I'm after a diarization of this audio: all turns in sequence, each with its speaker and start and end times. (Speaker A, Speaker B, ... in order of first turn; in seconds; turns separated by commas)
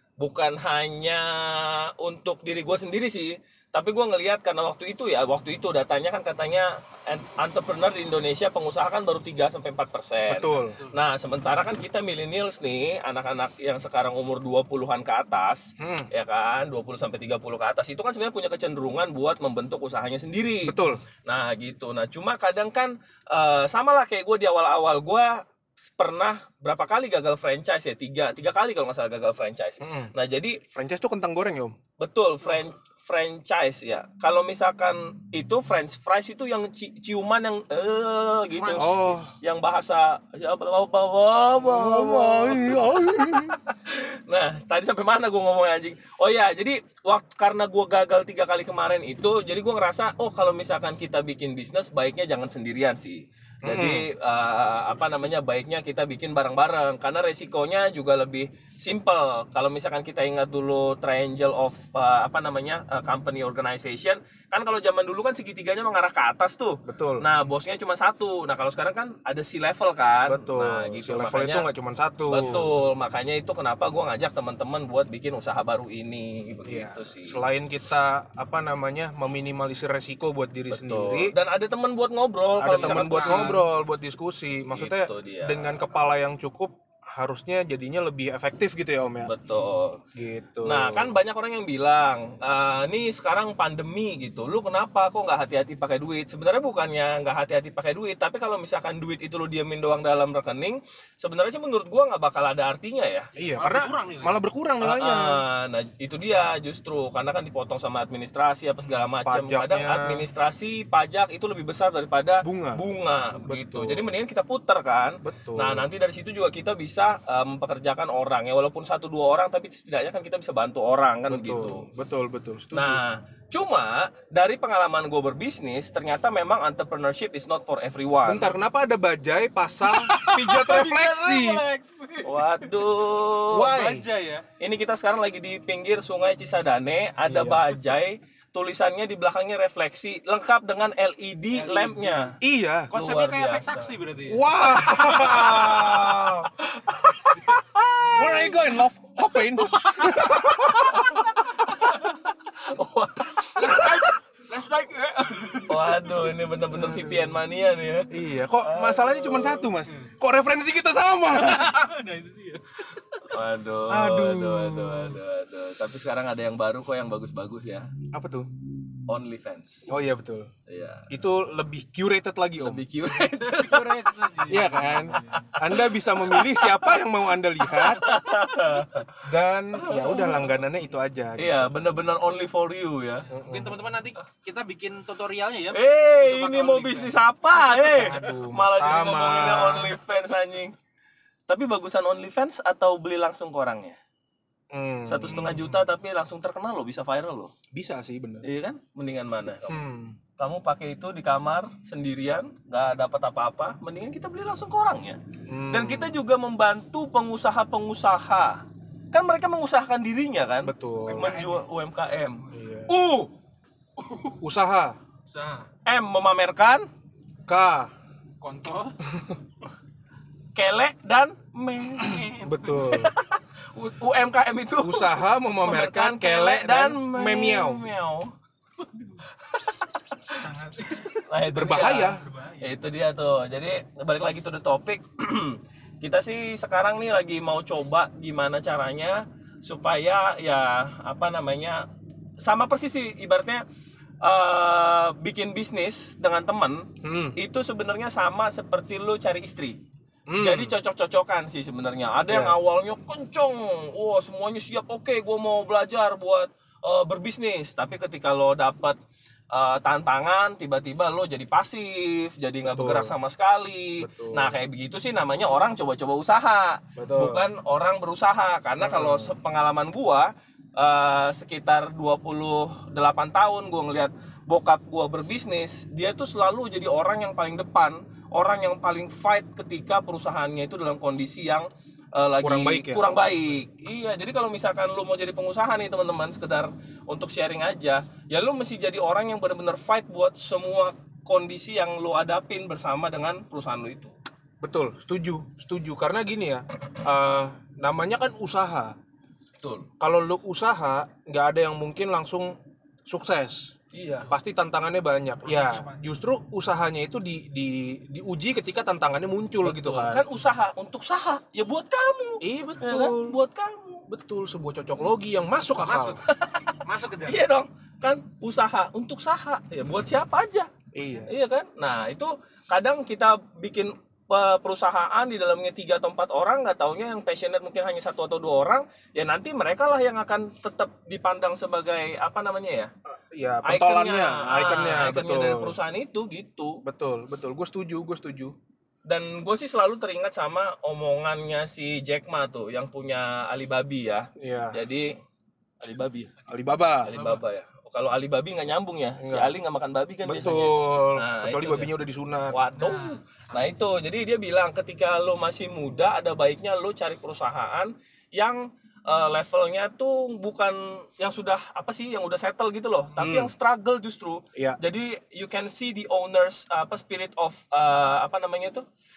Speaker A: 0.2-30.6, Speaker B: 10.3-10.8, Speaker B: 15.8-16.1, Speaker B: 20.6-21.0, Speaker B: 29.8-30.1, Speaker B: 30.7-31.8, Speaker A: 32.0-71.7, Speaker C: 38.5-39.2, Speaker B: 38.7-39.3, Speaker B: 41.6-43.6, Speaker B: 53.6-54.1, Speaker B: 66.9-67.2, Speaker B: 70.2-72.7, Speaker A: 72.3-77.4, Speaker B: 76.7-81.3, Speaker A: 80.7-83.6, Speaker B: 82.6-89.3, Speaker C: 82.7-83.6, Speaker A: 84.7-86.0, Speaker A: 89.2-90.0, Speaker B: 90.1-91.1, Speaker A: 90.6-103.3, Speaker B: 103.4-105.4, Speaker C: 103.4-104.4, Speaker A: 104.8-121.8, Speaker B: 109.1-110.2, Speaker B: 112.4-112.8, Speaker B: 113.3-114.0, Speaker B: 115.2-115.9, Speaker B: 121.3-123.0, Speaker A: 122.7-128.5, Speaker B: 128.2-131.6, Speaker C: 129.8-133.0, Speaker A: 132.2-133.8, Speaker B: 133.5-134.1, Speaker C: 133.5-134.4, Speaker A: 134.6-142.3, Speaker B: 137.2-137.8, Speaker C: 141.5-142.4, Speaker B: 142.4-142.9, Speaker C: 142.9-145.8, Speaker A: 142.9-144.0, Speaker B: 144.3-146.5, Speaker A: 146.6-148.7, Speaker B: 148.1-151.3, Speaker C: 149.5-150.5, Speaker A: 150.9-154.1, Speaker C: 153.6-156.1, Speaker A: 155.6-159.7, Speaker B: 156.7-157.4, Speaker B: 158.1-161.8, Speaker C: 161.3-163.1, Speaker A: 163.1-167.9, Speaker B: 163.9-165.2, Speaker B: 168.1-168.5, Speaker A: 169.1-169.9, Speaker B: 169.9-170.5, Speaker A: 170.7-171.1, Speaker B: 171.1-172.8, Speaker A: 172.6-174.1, Speaker C: 173.2-175.4, Speaker B: 174.5-178.1, Speaker A: 175.2-177.0, Speaker A: 177.7-179.3, Speaker B: 179.2-181.7, Speaker A: 179.8-180.5, Speaker A: 181.3-183.3, Speaker B: 183.3-183.8, Speaker C: 183.4-187.2, Speaker A: 185.7-190.7, Speaker B: 187.7-190.0, Speaker A: 191.5-194.0, Speaker B: 194.7-195.8, Speaker A: 195.0-197.5, Speaker B: 197.7-198.5, Speaker A: 198.4-199.8, Speaker B: 199.7-200.2, Speaker A: 200.4-213.3, Speaker B: 205.5-206.2, Speaker B: 210.6-211.4, Speaker C: 211.1-211.7, Speaker B: 212.5-212.9, Speaker C: 214.0-214.4, Speaker B: 214.4-215.0, Speaker C: 215.3-215.7, Speaker A: 215.8-216.9, Speaker B: 217.5-217.9, Speaker C: 218.4-219.0, Speaker B: 219.1-219.3, Speaker A: 220.5-228.3, Speaker C: 222.0-222.6, Speaker B: 222.4-223.1, Speaker B: 224.8-227.9, Speaker A: 229.3-230.4, Speaker C: 230.2-232.8, Speaker A: 231.2-241.8, Speaker B: 231.5-232.2, Speaker A: 242.4-243.6, Speaker A: 244.2-249.8, Speaker B: 247.0-247.4, Speaker B: 250.3-250.7, Speaker A: 250.3-259.0, Speaker B: 252.3-252.6, Speaker A: 259.5-294.1, Speaker B: 262.6-263.1, Speaker B: 264.0-264.6, Speaker B: 266.9-267.5, Speaker B: 268.8-269.4, Speaker B: 282.4-283.1, Speaker B: 294.6-298.9, Speaker A: 299.6-299.9, Speaker B: 300.0-302.6, Speaker B: 303.1-303.7, Speaker A: 303.9-304.3, Speaker B: 304.3-310.2, Speaker C: 305.4-306.0, Speaker A: 309.6-314.0, Speaker B: 312.4-313.4, Speaker B: 314.1-316.2, Speaker C: 315.7-317.4, Speaker A: 316.2-332.9, Speaker B: 320.9-321.3, Speaker B: 333.1-335.8, Speaker A: 333.6-336.8, Speaker B: 336.8-338.5, Speaker A: 339.1-345.1, Speaker B: 344.4-344.8, Speaker A: 345.8-346.3, Speaker B: 346.5-347.2, Speaker A: 347.0-351.9, Speaker C: 347.0-347.4, Speaker B: 349.2-349.5, Speaker B: 350.2-352.6, Speaker A: 352.5-368.9, Speaker C: 352.8-353.7, Speaker B: 363.2-363.5